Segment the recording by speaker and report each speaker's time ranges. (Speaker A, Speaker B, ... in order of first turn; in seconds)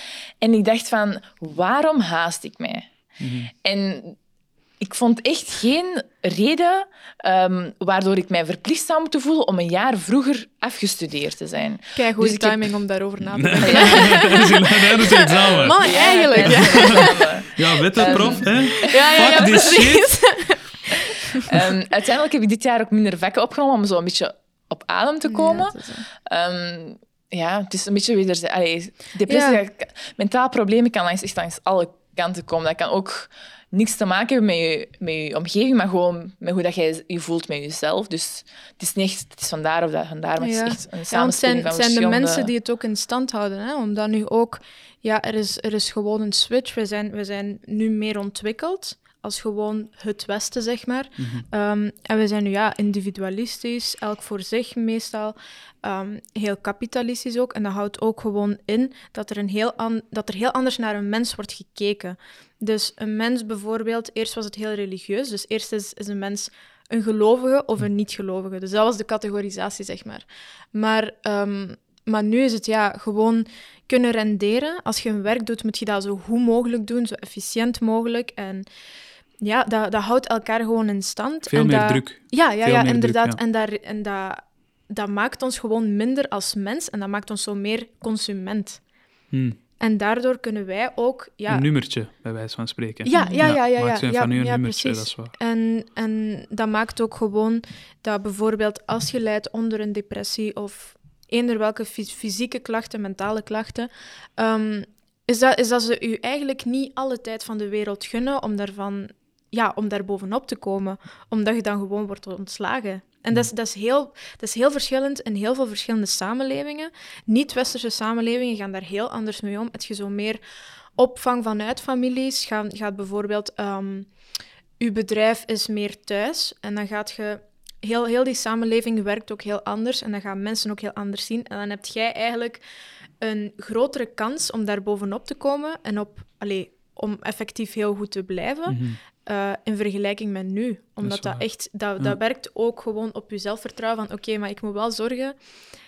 Speaker A: 0.4-2.9, 3.5-4.2, 4.8-12.7, 13.6-14.3, 15.4-19.8, 21.4-42.5, 93.1-93.5
Speaker B: 3.2-3.5, 13.3-15.8, 16.4-20.1, 51.2-51.4, 81.5-83.4, 89.3-89.6, 91.5-95.3, 138.7-139.0, 141.0-141.4
Speaker C: 11.9-21.7, 25.3-26.1, 29.3-29.6, 40.4-78.7, 79.4-88.8, 89.8-91.7, 93.1-120.4, 121.0-124.1, 124.8-132.6, 133.2-145.4